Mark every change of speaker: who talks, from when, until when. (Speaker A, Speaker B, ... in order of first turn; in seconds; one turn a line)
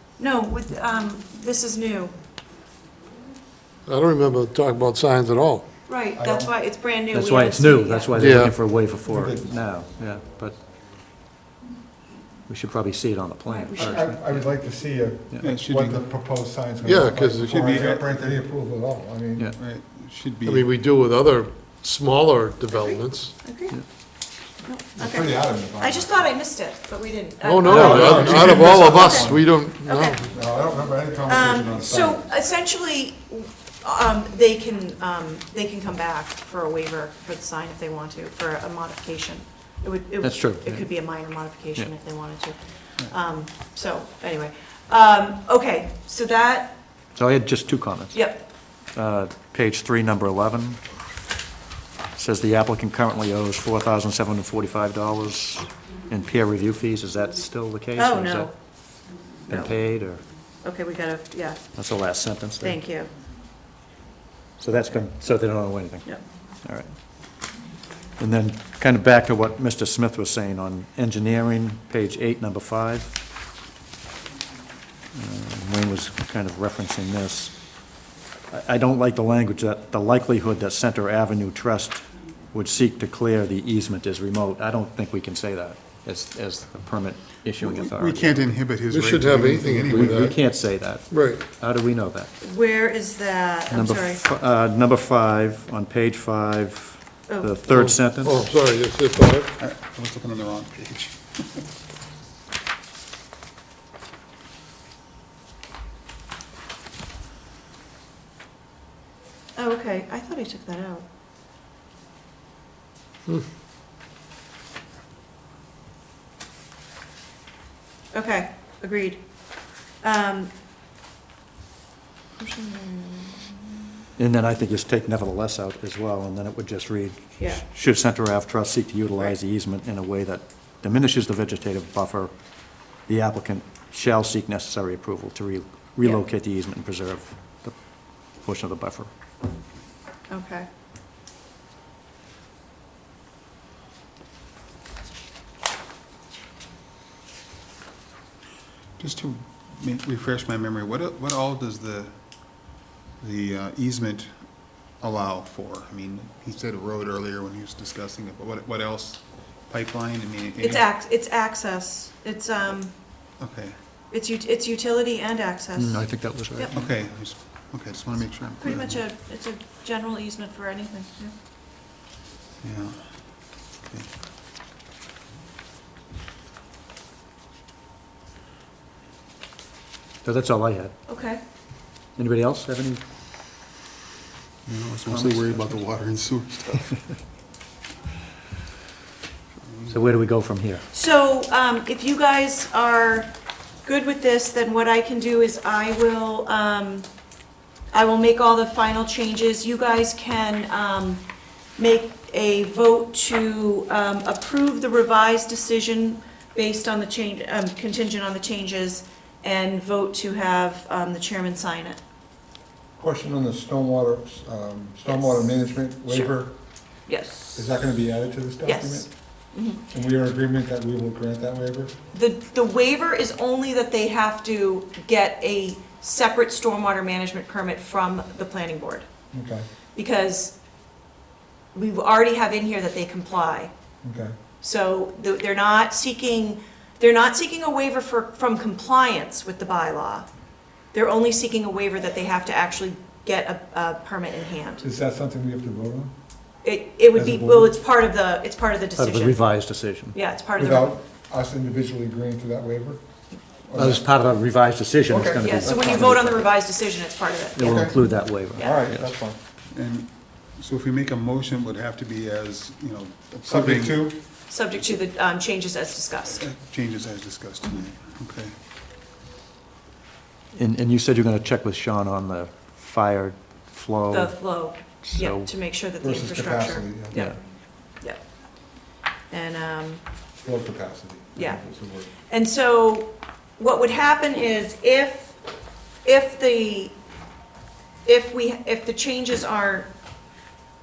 Speaker A: 0.2-2.1
Speaker B: 3.9-5.7
Speaker A: 5.9-8.3
Speaker C: 6.2-6.5
Speaker D: 7.1-10.6
Speaker B: 8.2-8.6
Speaker C: 8.9-9.6
Speaker D: 12.5-14.5
Speaker A: 13.5-14.1
Speaker C: 13.8-19.5
Speaker E: 15.4-16.1
Speaker B: 16.8-17.6
Speaker E: 17.4-18.4
Speaker E: 19.6-20.7
Speaker B: 20.4-23.3
Speaker A: 22.7-23.8
Speaker A: 24.6-30.2
Speaker C: 25.0-26.1
Speaker B: 27.4-30.2
Speaker C: 27.6-29.5
Speaker E: 27.7-28.8
Speaker C: 30.2-32.2
Speaker A: 31.3-46.8
Speaker D: 40.2-41.0
Speaker D: 47.1-48.3
Speaker A: 48.1-48.5
Speaker D: 48.9-50.8
Speaker D: 52.1-58.5
Speaker A: 58.0-58.6
Speaker A: 59.5-59.8
Speaker D: 59.5-60.2
Speaker A: 60.6-61.6
Speaker D: 61.8-62.8
Speaker A: 62.6-63.1
Speaker D: 64.6-66.9
Speaker D: 68.2-73.2
Speaker D: 75.1-77.5
Speaker D: 78.5-88.5
Speaker E: 87.6-90.3
Speaker B: 88.9-90.3
Speaker D: 89.9-92.3
Speaker B: 91.1-91.4
Speaker A: 92.4-94.2
Speaker D: 93.7-98.5
Speaker A: 97.3-97.6
Speaker B: 97.7-99.5
Speaker E: 99.6-101.6
Speaker A: 109.6-111.1
Speaker A: 118.1-119.2
Speaker A: 120.0-120.5
Speaker A: 122.4-123.9
Speaker D: 124.2-132.3
Speaker A: 127.4-127.7
Speaker D: 133.1-137.8
Speaker D: 138.4-139.1
Speaker A: 140.3-140.7
Speaker E: 149.0-152.1
Speaker E: 153.2-154.3
Speaker E: 155.0-160.8
Speaker A: 160.6-162.9
Speaker E: 163.4-163.8
Speaker A: 164.1-166.0
Speaker D: 165.8-166.8
Speaker A: 166.6-166.9
Speaker E: 166.7-169.0
Speaker A: 168.5-171.3
Speaker E: 172.6-173.1
Speaker D: 180.2-180.9
Speaker A: 181.1-181.4
Speaker D: 182.2-183.0
Speaker E: 184.7-187.0
Speaker D: 185.1-185.7
Speaker E: 189.7-190.0
Speaker D: 189.9-190.8
Speaker A: 190.9-193.3
Speaker A: 193.8-197.1
Speaker A: 197.9-201.2
Speaker A: 201.8-212.0
Speaker C: 213.0-216.5
Speaker A: 215.1-216.3
Speaker A: 217.1-217.7
Speaker C: 217.6-219.1
Speaker A: 218.6-219.8
Speaker C: 219.9-221.9
Speaker A: 222.1-229.1
Speaker C: 229.3-229.6
Speaker A: 229.9-230.6
Speaker A: 231.7-233.7
Speaker C: 234.0-234.3
Speaker A: 234.6-240.3
Speaker A: 240.9-244.8
Speaker C: 244.8-246.1
Speaker A: 246.6-249.4
Speaker C: 247.1-247.8
Speaker D: 249.0-250.2
Speaker A: 250.1-251.0
Speaker C: 250.6-253.0
Speaker C: 253.7-254.1
Speaker D: 253.8-256.4
Speaker C: 255.1-256.4
Speaker A: 255.4-258.0
Speaker D: 257.6-259.1
Speaker C: 257.6-258.0
Speaker C: 258.6-259.4
Speaker E: 259.7-264.1
Speaker C: 263.4-264.2
Speaker A: 264.5-266.4
Speaker E: 266.3-268.5
Speaker D: 270.5-275.5
Speaker A: 274.1-277.4
Speaker C: 276.0-277.3
Speaker A: 279.3-280.0
Speaker C: 280.4-282.1
Speaker A: 281.4-281.6
Speaker A: 282.3-285.4
Speaker A: 286.0-287.0
Speaker A: 288.1-289.9